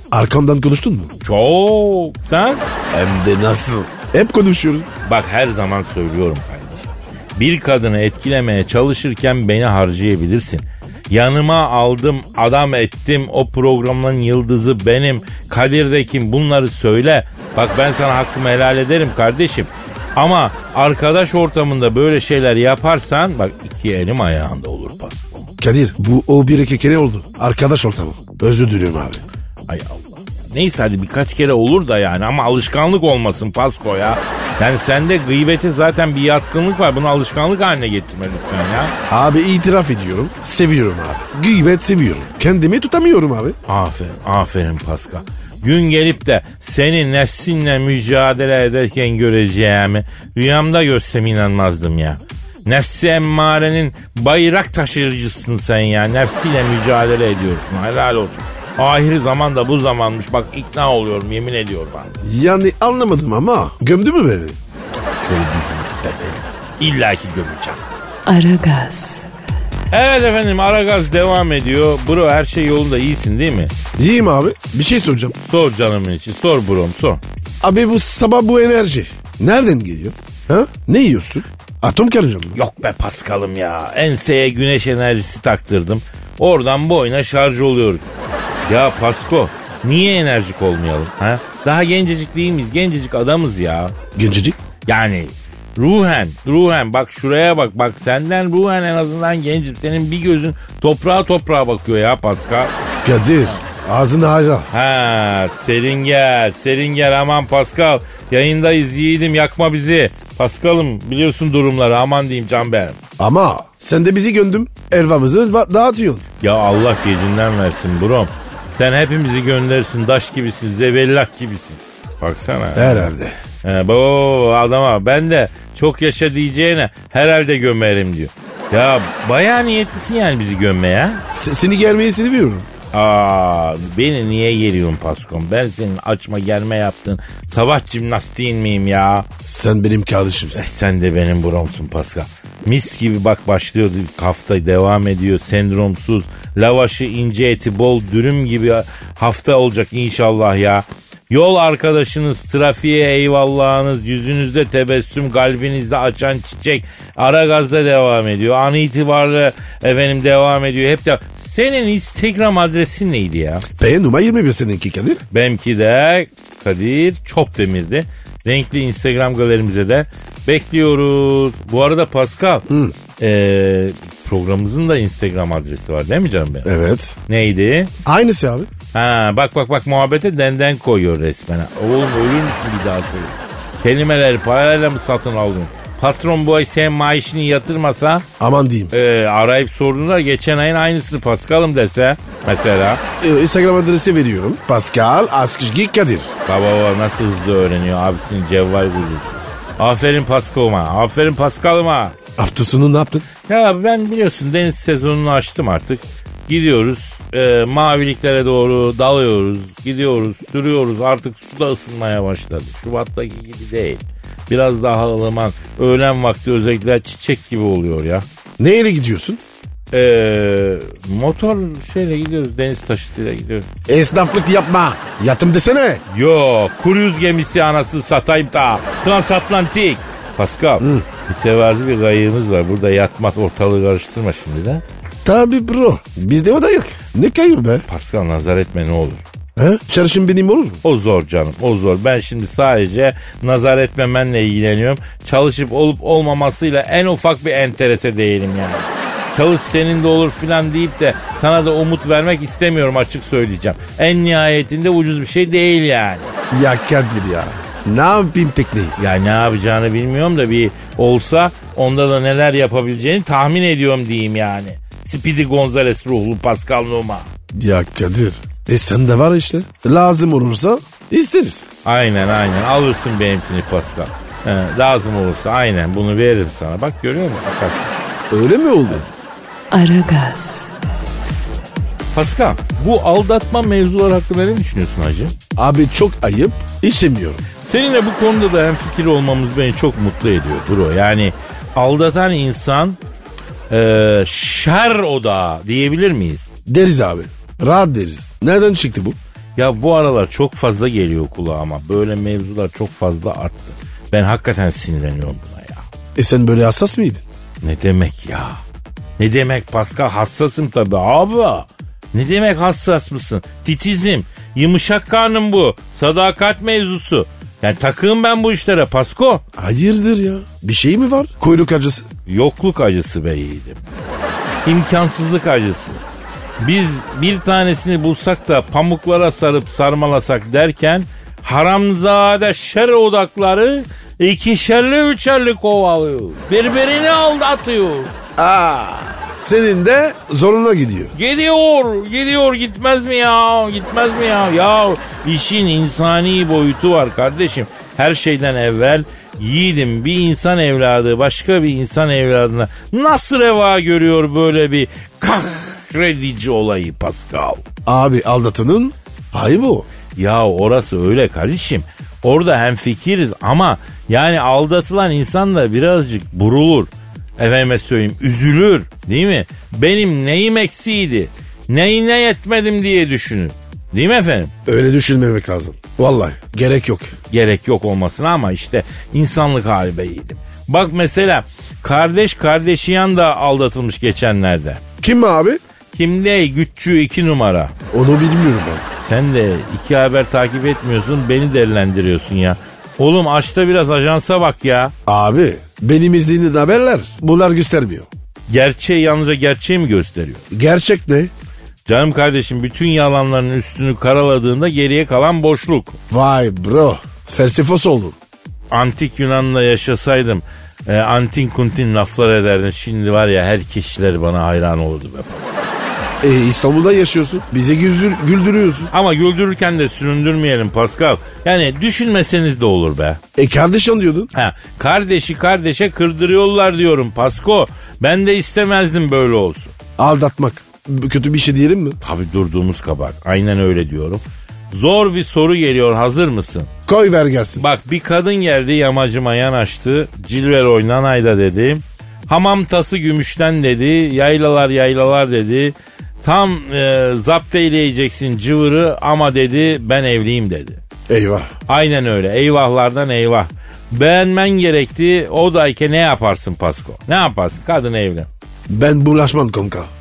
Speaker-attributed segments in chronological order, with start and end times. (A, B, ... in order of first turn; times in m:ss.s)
0:00.1-0:01.1 A
0:01.2-0:02.6 B
0:02.9-0:04.9 A
0:05.0-0:25.5 B
0:25.6-0:29.2 A
0:29.7-0:38.9 B
0:39.1-0:43.6 A
0:43.7-1:02.2 B
1:02.2-1:04.6 A
1:05.2-1:07.8 B
1:08.2-1:09.3 C
1:09.9-1:13.7 B
1:14.0-1:15.4 A
1:15.4-1:17.2 B
1:17.6-1:22.6 A
1:22.5-1:28.1 B
1:28.7-1:33.9 B
1:34.1-1:34.6 A
1:34.8-1:42.7 B
1:43.0-1:44.7 A
1:44.7-1:53.0 B
1:53.2-1:56.2 A
1:56.4-2:11.2 B
2:02.7-2:03.3 A
2:11.3-2:12.7 A
2:12.9-2:19.3 B
2:19.4-2:20.6 A
2:20.5-2:43.6 B
2:43.8-2:45.2 A
2:45.3-2:52.6 B
2:52.7-2:52.9 A
2:53.2-2:56.7 B
2:56.6-2:57.2 A
2:57.3-2:57.9 B
2:58.0-2:58.7 A
2:58.9-3:08.2 B
3:08.4-3:08.9 A
3:08.9-3:13.0 B
3:13.2-3:16.3 A
3:16.5-3:22.2 B
3:22.4-3:23.3 A
3:23.4-3:38.2 B
3:38.6-3:39.4 A
3:39.9-3:43.7 B
3:43.9-3:46.0 A
3:46.1-3:54.8 B
3:50.8-3:51.0 A
3:55.2-3:57.8 A
3:57.9-3:59.2 B
3:59.6-4:00.8 A
4:00.8-4:16.3 B
4:16.5-4:19.0 A
4:19.0-4:27.3 B
4:27.5-4:31.6 A
4:31.8-4:38.0 B
4:38.3-4:39.0 A
4:39.7-4:40.7 C
4:42.1-4:45.3 B
4:45.6-4:47.4 A
4:47.6-4:53.0 B
4:53.7-4:56.5 B
4:56.7-4:59.2 A
4:59.6-5:05.8 B
5:06.2-5:07.2 A
5:07.6-5:08.6 B
5:09.2-5:19.4 B
5:19.5-5:22.1 A
5:22.3-5:23.8 B
5:24.6-5:26.0 B
5:26.6-5:38.1 B
5:38.4-5:41.1 A
5:41.1-5:57.6 B
5:57.8-5:59.9 A
6:00.2-6:14.5 B
6:14.6-6:17.1 A
6:17.3-6:24.8 B
6:25.0-6:25.6 A
6:25.9-6:27.7 B
6:27.9-6:28.8 A
6:29.0-6:34.9 B
6:35.0-6:38.1 A
6:38.5-6:40.4 B
6:40.5-6:41.3 A
6:41.8-6:46.0 B
6:46.1-6:48.2 A
6:48.7-6:55.6 B
6:56.2-6:58.9 A
6:58.9-7:03.2 B
7:03.4-7:04.3 A
7:04.3-7:09.7 B
7:10.0-7:12.0 A
7:12.0-7:16.7 B
7:16.9-7:17.6 A
7:17.6-7:30.8 B
7:31.1-7:31.5 A
7:31.7-7:38.3 B
7:38.7-7:39.9 A